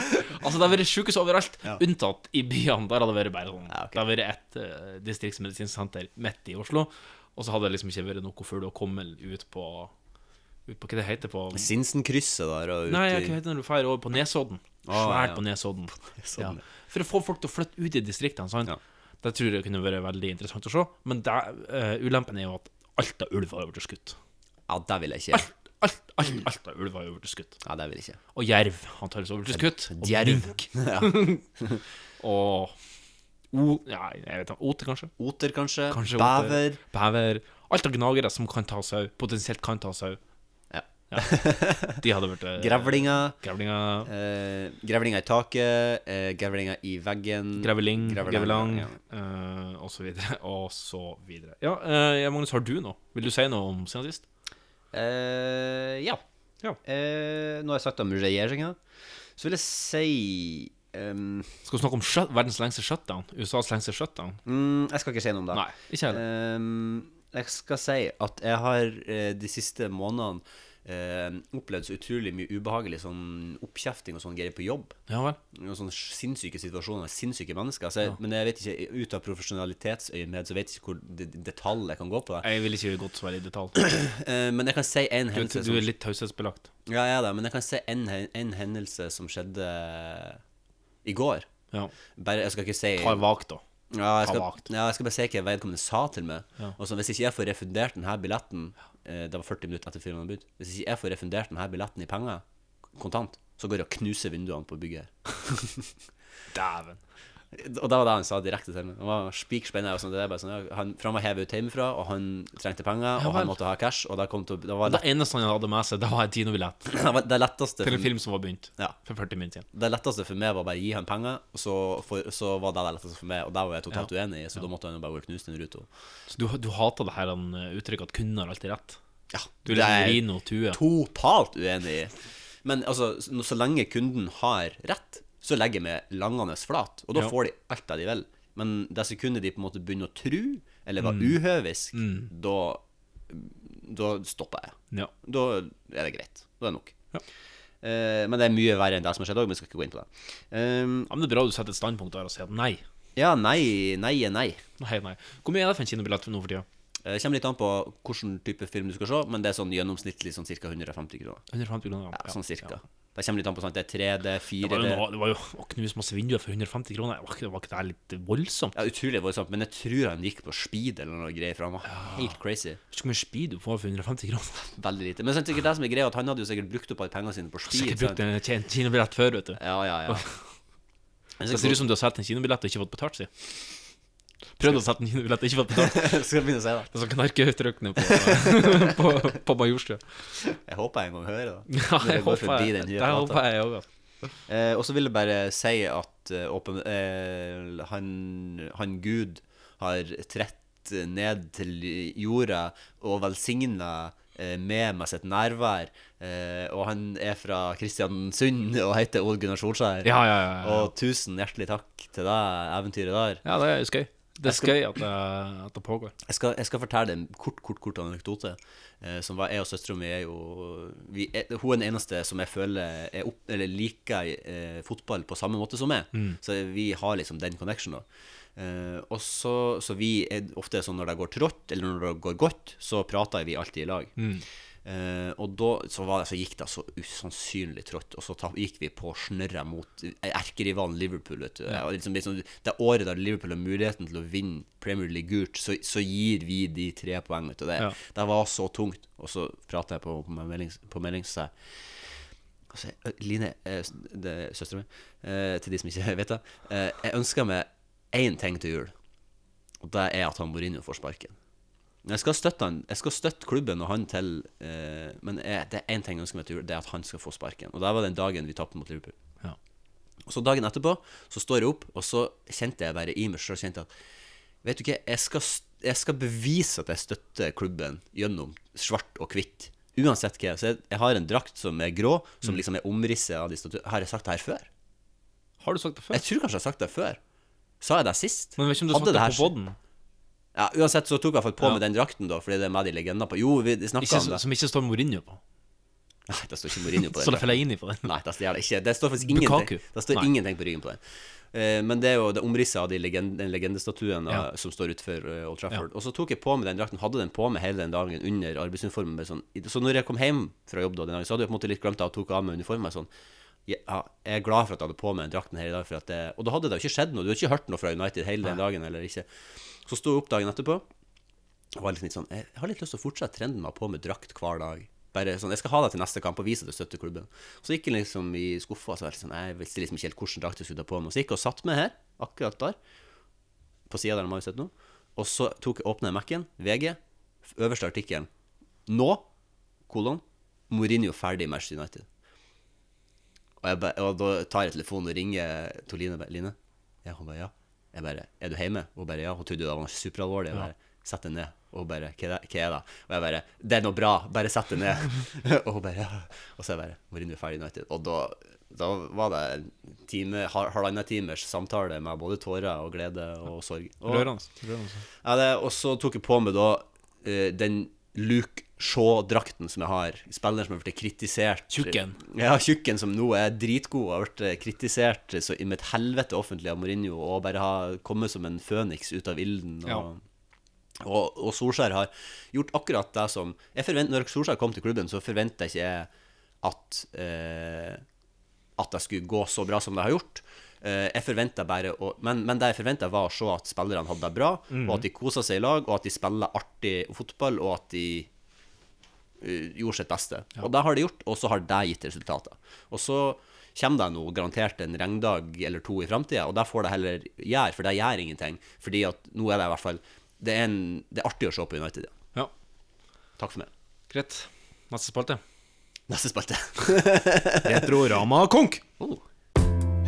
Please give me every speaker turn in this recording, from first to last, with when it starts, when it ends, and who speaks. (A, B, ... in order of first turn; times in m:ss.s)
0:00.3-0:09.9 A
0:03.7-0:04.0 B
0:10.7-0:11.7 A
0:11.5-0:13.4 B
0:12.9-0:24.2 A
0:14.8-0:15.4 B
0:16.2-0:16.6 B
0:24.7-0:25.5 B
0:25.3-0:27.6 A
0:27.6-0:28.2 B
0:28.4-0:31.4 A
0:29.5-0:31.8 B
0:32.2-0:32.7 A
0:33.5-0:35.1 A
0:35.2-0:36.8 B
0:35.9-0:40.2 A
0:40.7-0:42.0 B
0:41.1-0:44.1 A
0:42.6-0:43.4 B
0:44.1-0:49.0 B
0:47.6-0:54.2 A
0:54.9-0:56.2 B
0:56.8-0:58.8 B
0:59.4-1:01.6 B
1:01.6-1:04.4 A
1:04.4-1:15.0 B
1:05.5-1:06.2 A
1:15.1-1:15.4 A
1:15.5-1:22.5 B
1:22.4-1:23.8 A
1:23.8-1:25.9 B
1:25.3-1:26.7 A
1:26.9-1:30.4 B
1:31.0-1:31.5 B
1:32.2-1:33.2 B
1:33.0-1:33.6 A
1:33.9-1:42.4 B
1:34.2-1:34.6 A
1:43.0-1:45.9 B
1:46.5-1:47.0 A
1:47.5-1:55.0 B
1:53.2-1:53.6 A
1:54.8-1:56.9 A
1:56.9-1:58.1 B
1:57.8-1:59.7 A
1:59.7-2:05.9 B
2:06.3-2:09.0 A
2:09.3-2:12.1 B
2:09.6-2:10.8 A
2:12.6-2:27.0 B
2:21.0-2:21.4 A
2:21.9-2:22.3 A
2:27.8-2:31.1 B
2:31.1-2:32.8 A
2:33.2-2:34.6 B
2:34.8-2:36.7 A
2:37.0-2:41.4 B
2:41.5-2:42.7 A
2:42.1-2:45.0 B
2:44.6-2:48.8 A
2:48.8-2:52.8 B
2:51.8-2:52.3 A
2:52.9-2:54.7 A
2:54.7-2:58.2 B
2:57.7-3:00.4 A
2:59.6-3:00.2 B
3:01.4-3:01.8 B
3:01.5-3:03.3 A
3:04.6-3:06.2 A
3:05.7-3:06.9 B
3:06.9-3:10.2 A
3:08.0-3:09.0 B
3:10.4-3:13.4 B
3:11.7-3:13.8 A
3:14.5-3:33.4 B
3:30.0-3:30.9 A
3:33.4-3:36.2 A
3:34.4-3:34.8 B
3:36.3-3:54.1 B
3:54.2-3:54.4 A
3:54.8-4:12.1 B
4:12.7-4:18.9 B
4:19.8-4:21.4 B
4:22.0-4:29.2 B
4:30.3-4:33.9 B
4:34.6-4:44.7 B
4:45.6-4:46.2 A
4:46.1-4:47.2 B
4:47.8-4:49.5 B
4:48.6-4:49.8 A
4:50.6-4:54.4 B
4:54.0-4:55.4 A
4:56.3-5:01.0 B
4:57.0-4:58.1 A
4:59.2-5:00.3 A
5:01.5-5:13.1 B
5:13.7-5:19.3 B
5:19.9-5:20.9 B
5:21.8-5:32.8 B
5:33.9-5:38.3 B
5:38.9-5:39.3 B
5:39.9-5:42.1 B
5:43.6-6:04.3 B
6:04.0-6:05.0 A
6:05.2-6:20.2 B
6:11.7-6:12.2 A
6:21.0-6:26.1 B
6:26.6-6:28.0 B
6:28.8-6:38.3 B
6:34.7-6:35.0 A
6:39.4-6:52.1 B
6:53.4-6:53.7 B
6:54.1-6:55.4 A
6:56.1-6:57.9 B
6:57.6-6:58.8 A